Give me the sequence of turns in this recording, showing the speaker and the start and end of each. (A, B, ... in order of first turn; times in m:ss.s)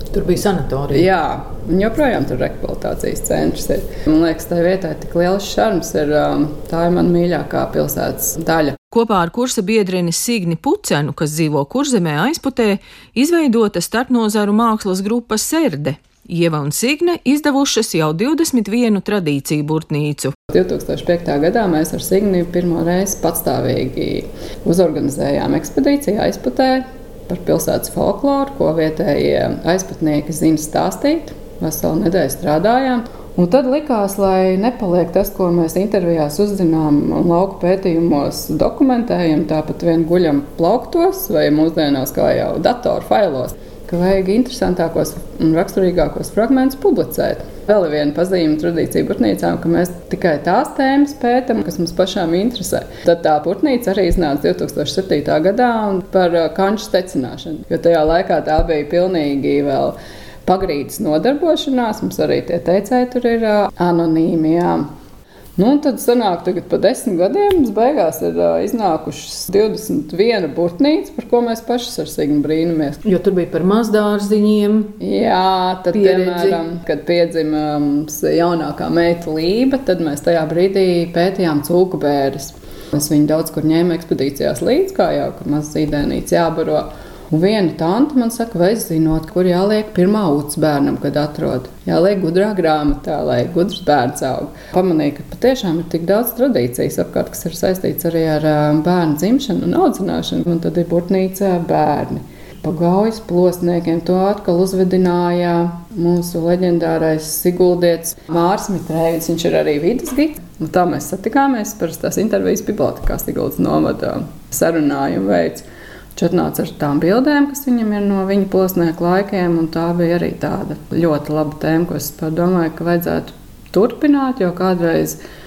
0:00.1-0:01.1 A
0:00.9-0:08.8 B
0:08.9-0:20.3 C
0:20.5-1:04.9 B
1:05.6-1:13.0 B
1:13.0-1:15.0 A
1:15.0-1:55.6 B
1:15.9-1:16.6 A
1:56.2-2:05.2 B